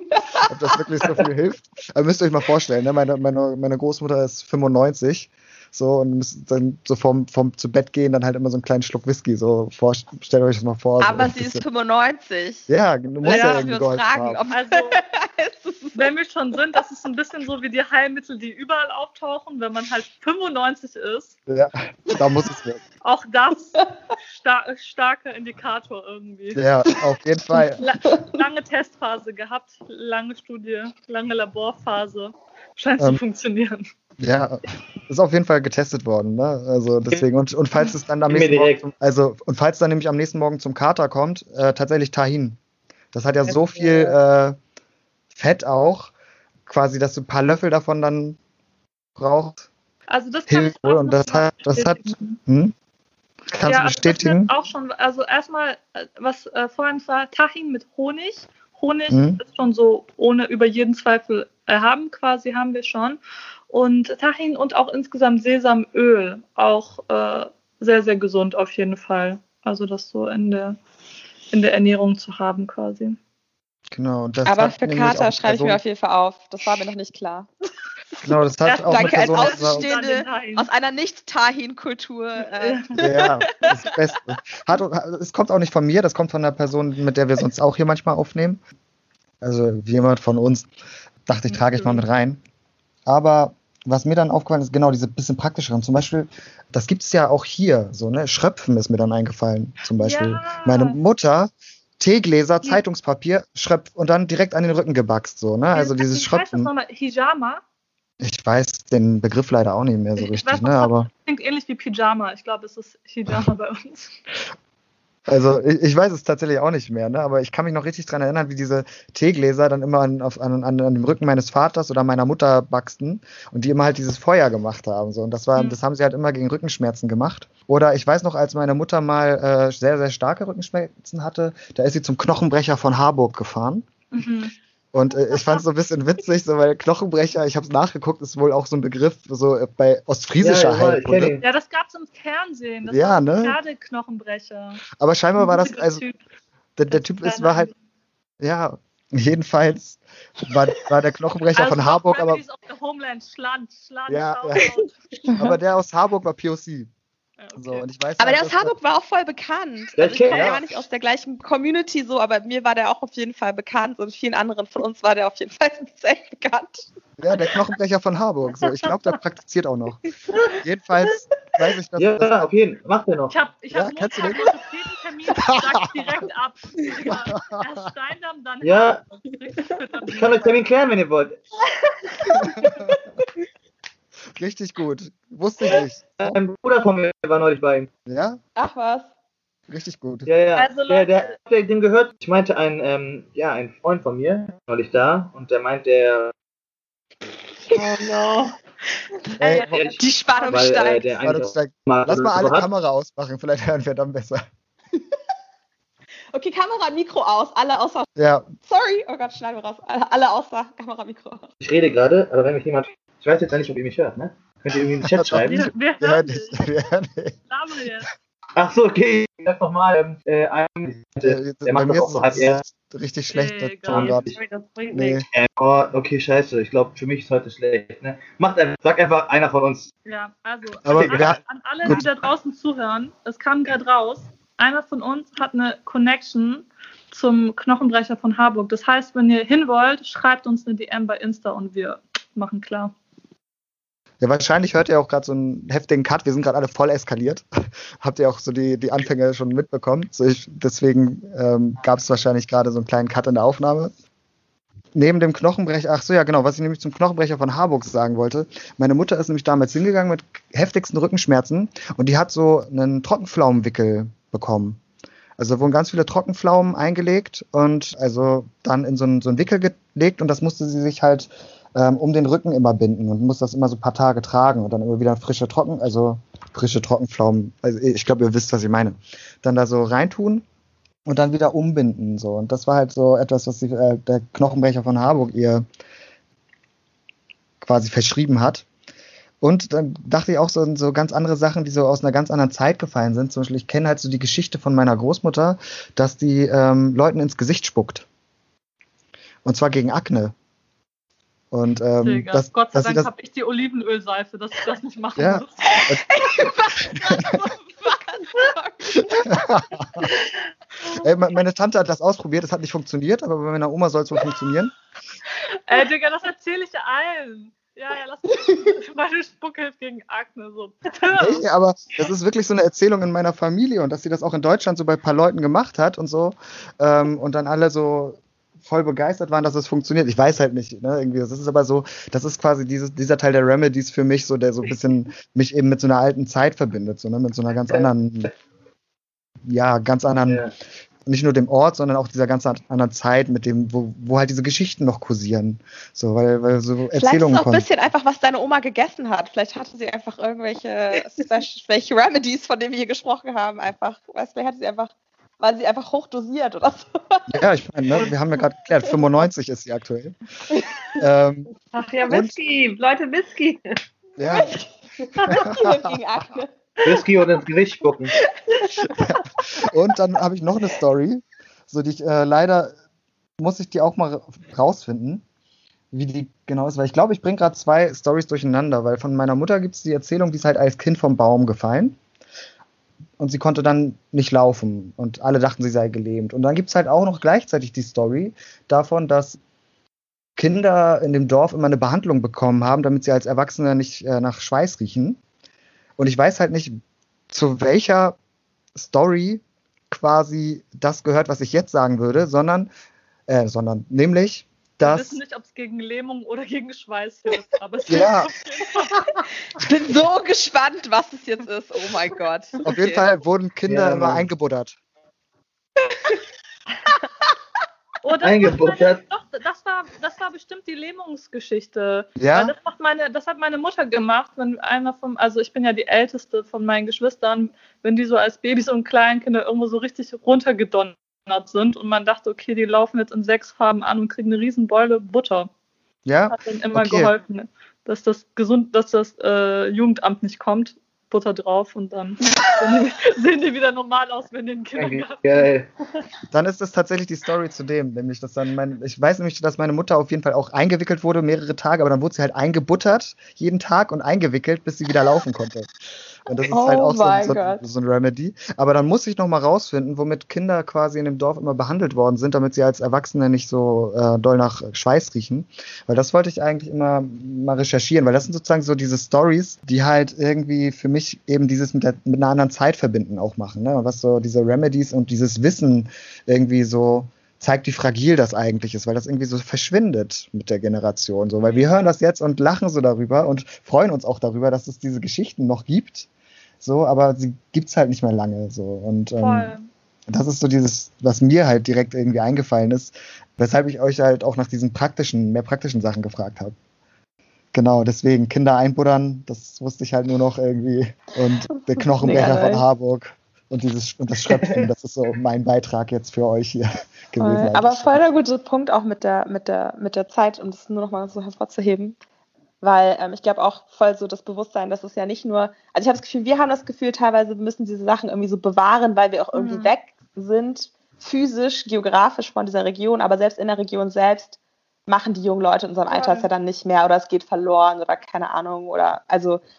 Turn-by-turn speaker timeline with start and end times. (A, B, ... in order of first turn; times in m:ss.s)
0:00.1-0:00.5 A
0:00.5-0:11.6 B
0:11.0-0:12.7 A
0:12.7-0:14.4 B
0:13.2-0:16.1 A
0:13.3-0:13.7 C
0:14.5-0:15.0 C
0:16.0-0:21.3 C
0:21.5-0:22.8 B
0:23.0-0:26.6 C
0:26.6-0:27.8 B
0:27.6-0:28.3 A
0:27.8-0:33.8 C
0:34.2-0:42.6 B
0:38.3-0:38.9 D
0:43.1-0:44.6 B
0:43.5-0:44.2 D
0:45.3-0:46.1 B
0:46.7-0:48.4 B
0:49.2-0:49.7 B
0:50.1-0:52.4 C
0:50.5-0:52.7 B
0:53.5-0:54.5 B
0:53.6-1:10.8 C
0:59.1-0:59.4 B
1:11.5-1:13.2 C
1:13.9-1:15.8 B
1:14.5-1:17.5 A
1:18.2-1:19.9 B
1:18.7-1:20.7 C
1:18.8-1:24.2 A
1:22.6-1:22.9 C
1:23.0-1:28.6 B
1:29.4-1:30.7 B
1:31.3-1:32.4 B
1:33.1-1:46.7 B
1:40.0-1:41.0 C
1:45.7-1:47.6 C
1:48.2-1:51.1 B
1:50.2-1:54.1 C
1:55.3-2:13.9 B
2:14.1-2:14.6 C
2:14.9-2:21.4 B
2:15.3-2:15.6 C
2:20.4-2:21.4 D
2:21.4-2:24.8 C
2:22.8-2:23.6 B
2:25.0-2:26.0 B
2:25.4-2:26.2 C
2:26.8-2:27.7 B
2:26.9-2:27.7 C
2:28.4-2:32.4 B
2:31.6-2:35.4 C
2:34.1-2:34.7 B
2:35.4-2:36.9 B
2:37.4-2:37.8 C
2:37.6-2:38.8 B
2:38.2-2:46.9 A
2:40.0-2:40.8 D
2:40.3-2:40.6 B
2:47.2-2:50.0 B
2:48.6-2:49.0 C
2:50.5-2:52.5 B
2:52.0-2:53.4 D
2:53.3-3:00.5 C
2:53.7-2:54.5 B
2:55.4-2:56.2 B
2:57.1-2:57.6 B
2:58.6-2:59.0 D
3:00.1-3:01.4 D
3:02.6-3:02.8 B
3:04.4-3:06.4 B
3:06.2-3:07.9 D
3:08.1-3:08.4 B
3:08.6-3:09.1 A
3:09.7-3:10.3 B
3:10.3-3:16.3 D
3:10.6-3:11.3 C
3:17.7-3:18.5 C
3:19.4-3:20.0 C
3:19.4-3:19.8 B
3:19.7-3:22.7 D
3:20.0-3:21.2 A
3:21.2-3:24.4 B
3:26.3-3:28.1 A
3:28.2-3:28.5 B
3:28.7-3:31.5 A
3:31.6-3:35.7 D
3:35.1-3:37.4 B
3:35.5-3:36.8 C
3:37.5-3:38.1 C
3:38.6-3:42.6 D
3:41.2-3:44.3 B
3:43.3-3:44.2 C
3:43.9-3:44.4 D
3:44.4-3:45.2 E
3:44.9-3:45.2 B
3:45.3-3:49.9 D
3:50.1-4:02.9 C
3:50.9-3:52.0 B
3:50.9-3:51.4 D
4:04.2-4:07.5 B
4:08.0-4:13.9 B
4:15.0-4:24.8 B
4:25.4-4:40.4 B
4:41.1-4:45.6 B
4:47.6-4:48.7 B
4:49.4-4:58.1 B
4:59.4-5:00.3 B
5:01.5-5:03.1 B
5:02.0-5:05.8 C
5:05.2-5:06.0 B
5:05.7-5:10.1 A
5:06.9-5:07.4 B
5:09.3-5:10.1 B
5:11.0-5:14.7 B
5:15.7-5:21.4 C
5:21.2-5:38.3 B
5:39.5-5:40.5 B
5:41.1-5:47.7 B
5:46.9-5:57.3 A
5:57.3-6:00.2 B
6:01.0-6:01.5 B
6:01.7-6:03.6 E
6:02.1-6:02.4 B
6:04.2-6:04.6 B
6:04.3-6:04.7 A
6:05.2-6:05.4 E
6:05.3-6:06.5 A
6:05.3-6:06.0 B
6:06.8-6:08.1 D
6:09.0-6:12.8 B
6:13.4-6:15.2 B
6:15.9-6:22.0 B
6:23.2-6:29.4 B
6:30.4-6:35.2 B
6:36.0-6:36.8 B
6:37.3-6:38.2 B
6:38.8-6:42.7 B
6:43.3-6:45.2 B
6:44.8-6:48.9 C
6:47.9-6:48.3 B
6:49.6-6:53.0 A
6:52.6-6:54.8 B
6:53.7-6:54.3 D
6:58.0-7:15.5 C
6:58.2-6:59.0 D
7:02.2-7:02.5 B
7:16.0-7:17.1 B
7:16.3-7:25.5 C
7:24.8-7:25.7 D
7:26.3-7:35.7 B
7:36.3-8:06.1 B
7:36.5-7:37.6 A
8:06.6-8:09.6 B
8:09.2-8:09.7 C
8:10.1-8:16.6 B
8:17.5-8:27.9 B
8:22.0-8:22.7 A
8:27.2-8:32.0 A
8:32.6-8:49.4 A
8:39.4-8:39.7 C
8:45.9-8:46.2 E